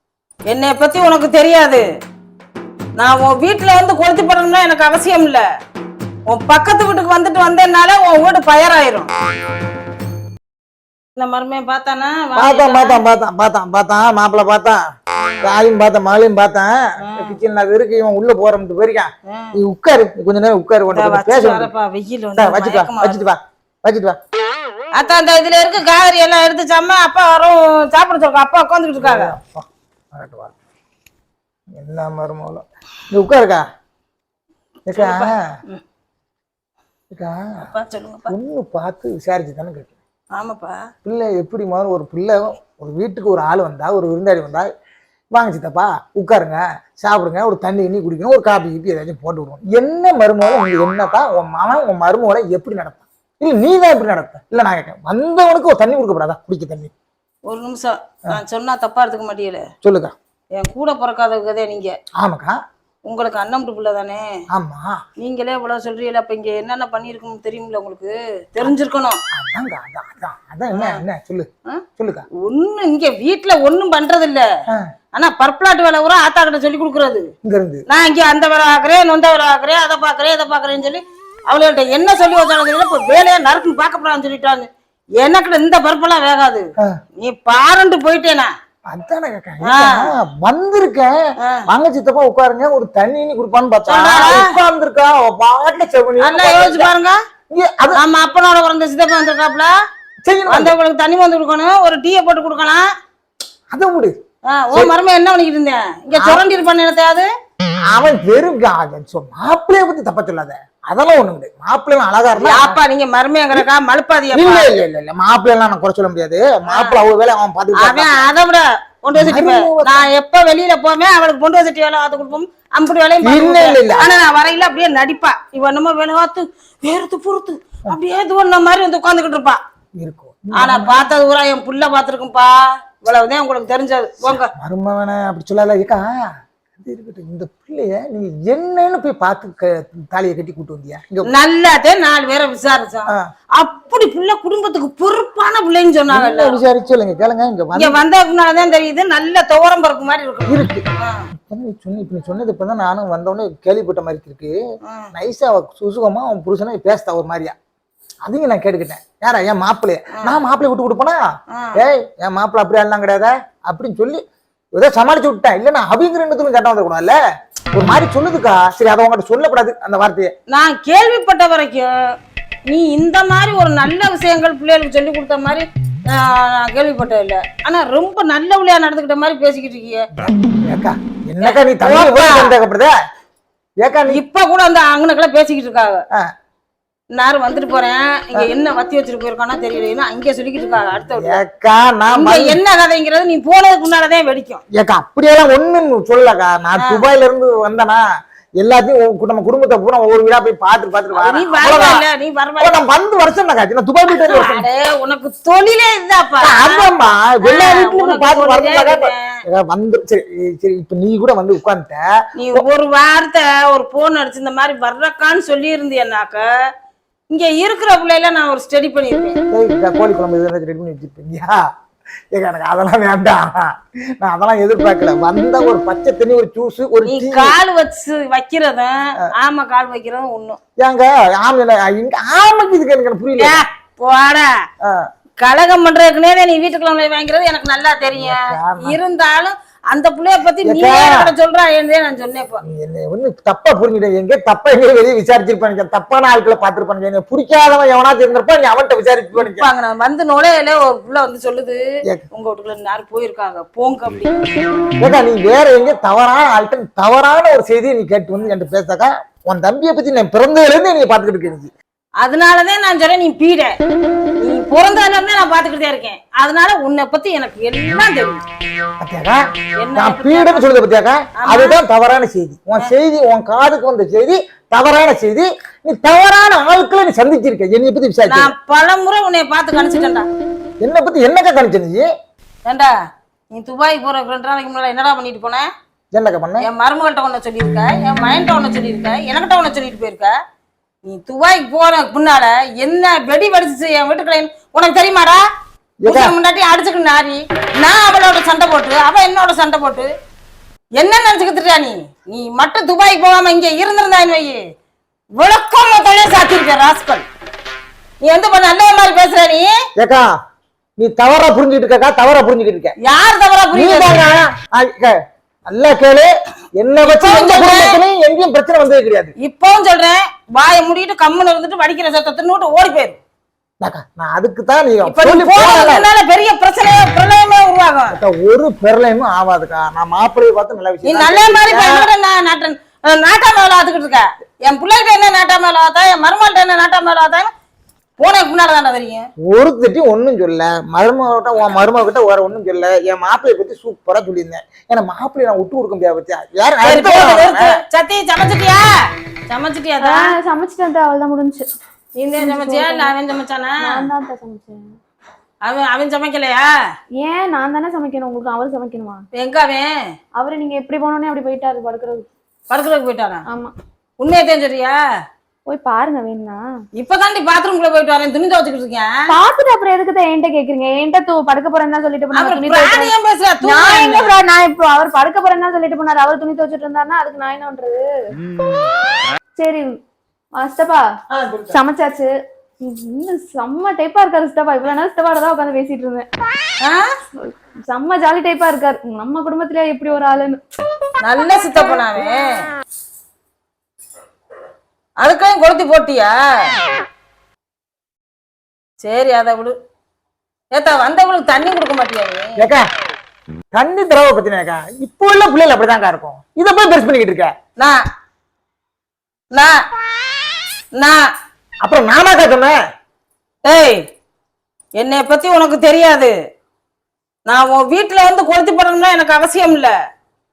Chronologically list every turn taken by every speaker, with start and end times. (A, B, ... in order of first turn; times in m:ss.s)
0:00.5-0:01.9 A
0:03.0-0:05.4 A
0:06.3-0:09.1 A
0:11.2-0:13.0 A
0:12.4-0:14.8 B
0:15.4-0:21.7 B
0:17.0-0:17.4 A
0:19.3-0:19.6 A
0:20.9-0:23.2 A
0:22.4-0:24.2 B
0:25.0-0:29.3 A
0:29.0-0:30.5 B
0:31.8-0:33.6 B
0:34.9-0:35.4 B
0:35.0-0:35.8 A
0:37.1-0:37.7 B
0:37.7-0:38.3 A
0:38.3-0:40.0 B
0:40.4-0:40.9 A
0:41.0-0:44.7 B
0:45.3-0:56.9 B
0:57.5-0:59.7 A
0:59.8-1:00.2 B
1:00.6-1:02.0 A
1:02.2-1:02.6 B
1:03.0-1:04.2 A
1:04.5-1:05.0 B
1:05.2-1:09.2 A
1:09.3-1:12.3 B
1:10.7-1:11.0 A
1:12.4-1:14.4 A
1:15.1-1:17.3 A
1:17.4-1:17.8 B
1:17.9-1:24.7 A
1:25.2-1:26.7 A
1:27.2-1:28.5 A
1:28.9-1:36.9 B
1:29.6-1:30.1 A
1:31.4-1:31.6 A
1:33.9-1:34.6 A
1:36.2-1:37.2 A
1:37.5-1:38.0 B
1:37.9-1:39.7 A
1:40.2-1:40.8 B
1:40.5-1:42.9 A
1:43.7-1:44.1 B
1:44.5-1:47.3 A
1:46.2-1:46.4 B
1:47.9-1:52.8 B
1:52.3-1:54.7 A
1:54.3-1:58.3 B
1:56.7-1:57.0 A
1:57.8-2:09.6 A
1:59.1-2:00.1 B
2:03.2-2:04.1 B
2:10.0-2:11.1 B
2:10.5-2:14.5 A
2:14.3-2:16.1 B
2:16.8-2:21.3 B
2:21.2-2:26.6 A
2:26.1-2:28.0 B
2:27.7-2:31.3 A
2:30.5-2:34.5 B
2:34.8-2:35.1 A
2:35.1-2:37.5 B
2:38.2-2:41.2 B
2:41.5-2:41.8 A
2:41.8-2:44.2 B
2:44.7-2:47.2 B
2:47.7-2:50.3 B
2:50.5-2:52.1 A
2:52.7-3:00.1 A
3:00.2-3:02.9 B
3:01.4-3:02.5 A
3:03.8-3:04.2 B
3:04.1-3:06.0 A
3:07.1-3:11.4 A
3:11.1-3:12.6 B
3:12.1-3:14.6 A
3:14.7-3:18.0 B
3:16.8-3:17.0 A
3:18.6-3:22.0 B
3:21.1-3:22.8 A
3:22.6-3:24.7 B
3:24.1-3:26.9 A
3:26.4-3:32.6 B
3:27.4-3:29.4 A
3:32.4-3:36.5 A
3:37.3-3:39.4 A
3:39.5-3:41.6 B
3:42.3-3:47.5 B
3:47.0-3:50.6 A
3:50.8-3:53.6 B
3:53.4-3:54.5 A
3:55.4-4:02.6 A
3:58.1-3:59.0 B
4:00.6-4:01.3 B
4:02.6-4:09.7 B
4:09.4-4:11.8 A
4:12.3-4:14.4 A
4:15.0-4:21.7 B
4:22.2-4:23.8 A
4:24.4-4:28.4 A
4:29.0-4:29.4 B
4:29.8-4:30.6 A
4:29.9-4:38.5 B
4:31.4-4:31.8 A
4:38.2-4:40.2 A
4:40.8-4:42.1 B
4:42.6-4:42.9 A
4:43.5-4:45.7 A
4:46.1-4:46.7 B
4:46.6-4:50.3 A
4:51.0-4:55.4 A
4:56.0-4:56.4 B
4:56.1-5:00.1 A
5:01.0-5:04.6 A
5:05.4-5:07.2 A
5:08.2-5:09.7 A
5:10.0-5:10.3 B
5:11.0-5:12.9 B
5:13.0-5:14.3 A
5:13.7-5:15.1 B
5:15.7-5:19.3 B
5:17.0-5:18.0 A
5:19.4-5:23.2 A
5:23.8-5:26.1 B
5:25.0-5:28.2 A
5:28.1-5:32.1 B
5:31.0-5:37.5 A
5:38.2-5:39.3 A
5:39.4-5:47.8 B
5:46.8-5:48.9 A
5:49.5-5:50.3 A
5:50.0-5:51.6 C
5:52.2-5:53.9 A
5:52.4-5:53.1 C
5:53.8-5:54.8 C
5:55.6-5:56.7 A
5:57.2-5:59.2 C
5:59.3-5:59.9 A
6:00.4-6:02.3 C
6:02.7-6:03.4 A
6:03.5-6:03.7 C
6:04.2-6:05.0 A
6:05.7-6:06.6 C
6:07.0-6:09.1 A
6:09.3-6:18.0 C
6:12.3-6:14.3 A
6:19.6-6:19.9 C
6:20.6-6:21.0 C
6:21.3-6:21.8 B
6:21.7-6:22.3 C
6:22.8-6:26.3 C
6:27.4-6:30.6 C
6:31.2-6:32.6 A
6:35.2-6:36.7 A
6:39.0-6:39.8 A
6:40.7-6:42.6 A
6:42.6-6:42.8 B
6:43.7-6:47.5 B
6:51.8-6:52.8 B
6:53.6-6:54.0 A
6:55.0-6:56.3 A
6:57.5-6:59.9 A